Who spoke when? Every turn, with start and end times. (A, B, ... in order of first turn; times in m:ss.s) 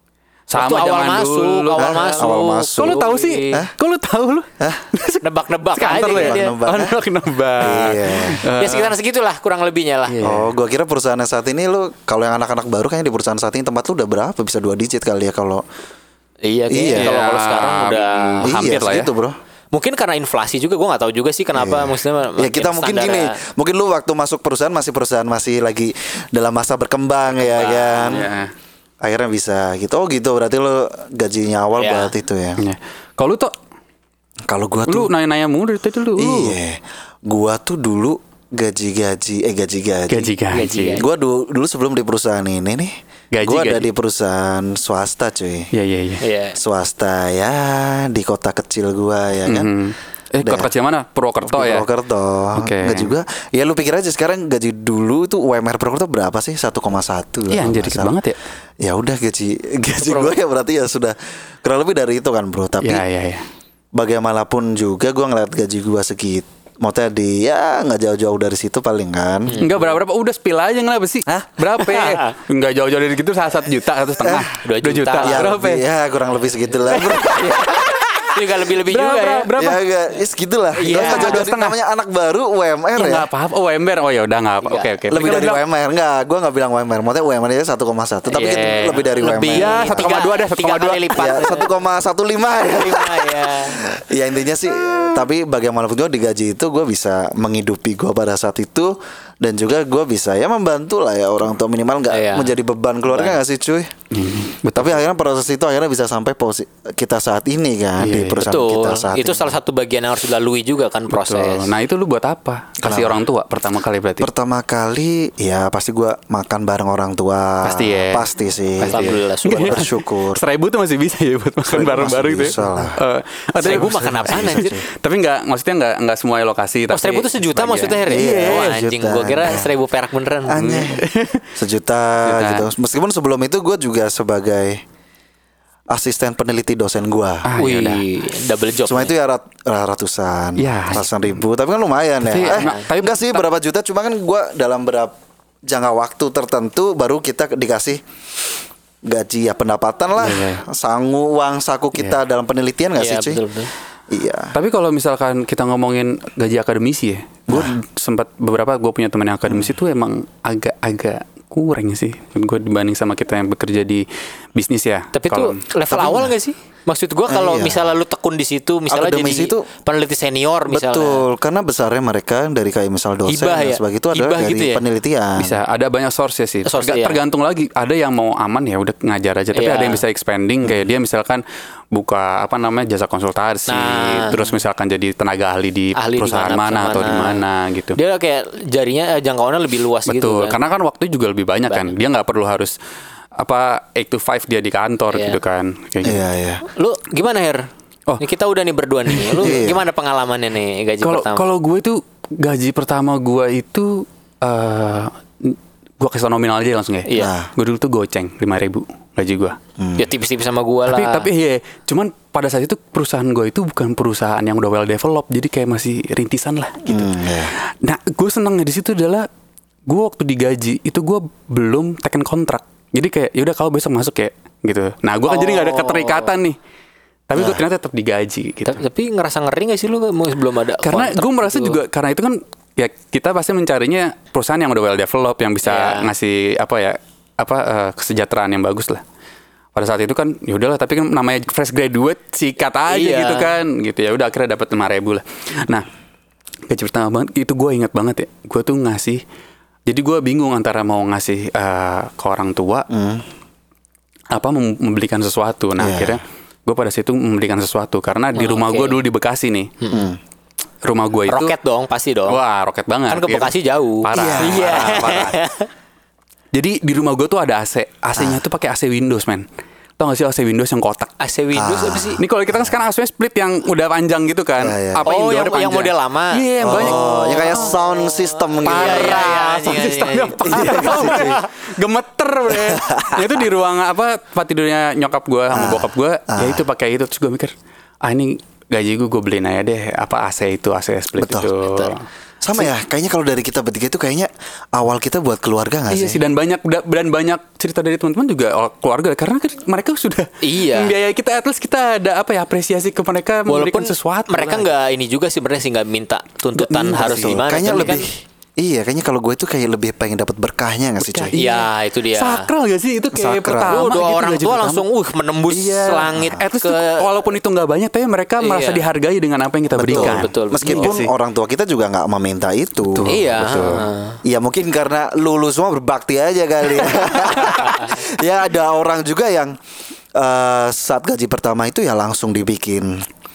0:00.5-0:08.9 A
0:00.5-0:03.6 B
0:01.8-0:03.7 C
0:04.6-0:04.9 C
0:05.2-0:06.5 B
0:05.9-0:07.0 C
0:07.6-0:08.5 C
0:08.6-0:10.2 B
0:10.1-0:10.5 A
0:10.2-0:15.6 C
0:16.4-0:18.7 B
0:16.7-0:17.1 C
0:17.0-0:19.1 A
0:18.4-0:19.4 C
0:19.7-0:23.4 B
0:21.5-0:28.3 C
0:27.4-0:28.2 B
0:28.0-0:28.5 A
0:29.0-0:32.6 C
0:31.8-0:32.1 B
0:32.6-0:33.5 A
0:34.5-0:35.1 C
0:34.9-0:36.6 A
0:36.2-0:40.3 C
0:40.1-0:41.0 A
0:40.5-0:41.0 B
0:41.0-0:45.7 C
0:43.3-0:43.9 A
0:45.7-0:46.2 A
0:46.2-0:46.6 B
0:46.6-0:49.7 C
0:49.5-0:51.8 A
0:50.4-0:50.7 C
0:51.4-0:58.2 C
0:52.5-0:53.1 A
0:57.5-0:58.4 A
0:58.8-1:03.0 C
1:00.0-1:00.3 B
1:02.8-1:03.4 A
1:03.9-1:09.6 C
1:09.4-1:10.0 B
1:09.6-1:15.8 A
1:11.8-1:12.3 B
1:14.2-1:14.5 C
1:14.6-1:15.5 B
1:15.2-1:17.7 C
1:16.9-1:19.8 A
1:17.2-1:17.6 B
1:18.2-1:19.5 B
1:19.6-1:23.3 C
1:20.8-1:21.4 B
1:20.9-1:21.8 A
1:23.0-1:25.6 A
1:24.6-1:25.0 B
1:25.1-1:30.2 C
1:28.3-1:31.7 B
1:29.2-1:31.4 A
1:31.1-1:43.9 C
1:32.7-1:33.8 B
1:42.1-1:42.5 B
1:43.1-1:43.4 B
1:44.1-1:45.0 A
1:44.7-1:49.5 C
1:48.0-1:48.4 A
1:48.4-1:51.7 B
1:51.1-1:54.3 A
1:52.8-1:53.2 C
1:54.2-2:00.4 C
1:57.6-1:58.3 A
1:58.8-2:08.7 A
1:58.8-1:59.9 B
2:01.7-2:03.0 C
2:03.6-2:04.7 B
2:03.6-2:04.8 C
2:06.9-2:10.7 B
2:08.1-2:09.7 C
2:10.5-2:14.8 C
2:10.6-2:11.5 A
2:12.2-2:12.7 A
2:15.9-2:17.5 C
2:17.4-2:18.0 A
2:17.6-2:19.1 B
2:18.8-2:25.1 C
2:20.6-2:21.2 A
2:22.2-2:23.4 A
2:22.4-2:22.8 B
2:25.7-2:28.0 C
2:29.0-2:33.4 C
2:30.2-2:30.6 A
2:33.0-2:33.7 B
2:34.1-2:34.5 C
2:34.5-2:45.6 A
2:37.5-2:37.8 C
2:39.5-2:39.7 C
2:45.1-2:51.2 B
2:45.9-2:46.3 C
2:47.3-2:47.9 C
2:48.9-2:49.6 C
2:50.7-2:55.5 C
2:53.3-2:54.8 B
2:55.4-3:01.4 A
2:56.6-2:57.2 B
2:59.5-3:00.0 B
3:01.9-3:08.0 A
3:03.7-3:04.6 B
3:06.0-3:07.4 B
3:08.0-3:10.6 B
3:10.1-3:12.7 A
3:13.4-3:16.2 A
3:15.1-3:15.4 B
3:16.0-3:16.6 C
3:16.7-3:17.7 B
3:18.2-3:21.4 B
3:19.1-3:19.6 A
3:19.4-3:19.8 C
3:21.0-3:29.6 A
3:27.1-3:27.3 B
3:27.2-3:27.5 C
3:29.8-3:30.0 C
3:30.0-3:31.3 B
3:30.9-3:37.2 A
3:36.8-3:37.6 C
3:37.8-3:39.3 A
3:39.9-3:46.6 A
3:45.3-3:46.3 B
3:47.3-3:48.8 A
3:47.3-3:47.6 C
3:48.6-3:51.8 B
3:50.8-3:59.0 A
3:55.6-3:56.1 B
3:59.7-4:05.8 A
4:02.9-4:03.5 B
4:06.7-4:09.2 A
4:09.9-4:12.9 A
4:12.9-4:13.2 C
4:14.3-4:19.7 A
4:15.8-4:16.2 C
4:18.3-4:19.0 B
4:19.8-4:20.1 B
4:19.9-4:20.2 C
4:20.8-4:21.5 A
4:21.3-4:22.4 B
4:22.3-4:25.4 A
4:23.1-4:25.7 B
4:24.1-4:24.7 C
4:26.5-4:29.4 A
4:28.2-4:28.4 C
4:30.0-4:31.1 A
4:31.2-4:32.2 B
4:31.5-4:32.7 C
4:32.2-4:37.7 A
4:34.6-4:35.1 C
4:35.0-4:41.4 B
4:36.6-4:39.3 C
4:38.6-4:52.0 A
4:40.5-4:41.4 C
4:42.5-4:43.3 C
4:45.5-4:46.6 C
4:51.2-4:51.5 C
4:51.6-4:51.9 B
4:52.4-4:56.2 C
4:55.9-5:04.7 A
5:00.4-5:00.9 B
5:03.5-5:08.1 B
5:06.5-5:08.0 A
5:07.0-5:11.4 C
5:11.0-5:14.8 A
5:11.4-5:12.5 B
5:13.1-5:13.9 C
5:13.7-5:17.1 B
5:15.5-5:16.4 C
5:16.0-5:21.1 A
5:18.4-5:18.9 B
5:19.7-5:23.1 C
5:19.9-5:21.0 B
5:22.8-5:23.8 A
5:23.0-5:24.2 B
5:24.2-5:29.6 C
5:27.0-5:27.7 A
5:27.4-5:28.0 B
5:30.1-5:33.0 C